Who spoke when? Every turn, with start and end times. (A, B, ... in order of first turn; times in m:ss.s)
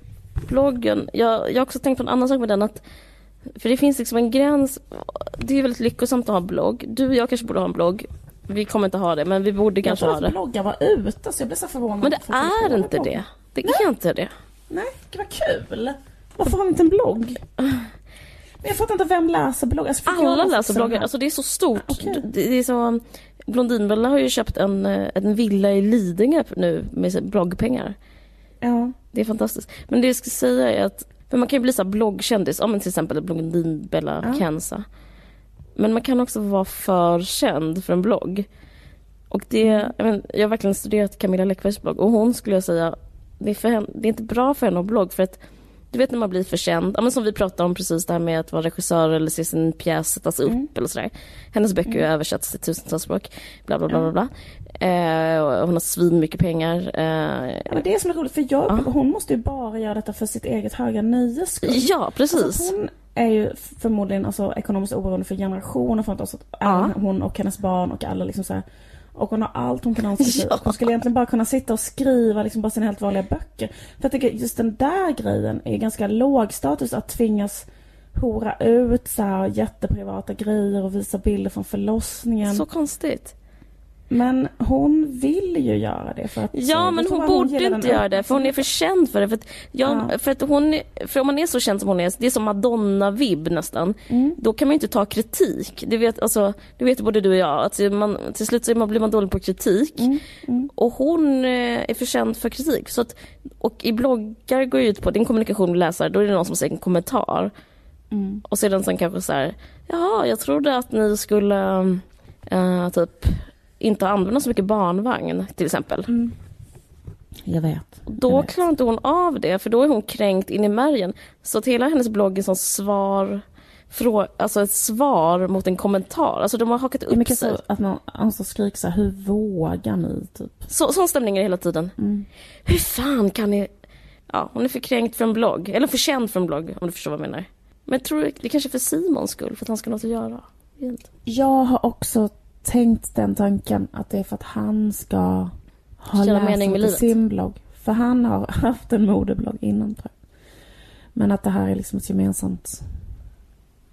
0:00.4-0:02.8 A
0:03.6-0:10.3 A
0:09.8-0:13.8 B
0:12.0-0:14.3 A
0:14.7-0:17.4 B
0:17.6-0:17.9 A
0:18.6-0:21.1 B
0:20.1-0:28.0 A
0:21.8-0:22.2 B
0:28.6-0:28.9 B
0:29.1-0:34.8 A
0:35.8-0:38.5 A
0:39.3-0:45.4 A
0:39.6-0:39.9 B
0:45.9-0:57.8 A
0:57.7-1:22.6 B
1:01.6-1:02.7 A
1:06.6-1:06.9 A
1:10.2-1:10.8 A
1:22.4-1:23.3 A
1:24.1-1:28.6 B
1:26.5-1:40.1 A
1:29.8-1:30.1 B
1:34.1-1:34.4 B
1:40.0-1:40.7 B
1:40.7-1:47.5 A
1:48.1-1:48.4 B
1:48.4-1:56.1 A
1:56.1-1:56.4 B
1:57.4-1:58.5 B
1:58.1-2:07.6 A
2:07.1-2:10.6 B
2:10.7-2:11.9 A
2:12.0-2:12.3 B
2:12.6-2:13.7 A
2:14.3-2:21.1 A
2:21.2-2:30.1 B
2:26.1-2:27.1 A
2:31.1-2:32.8 B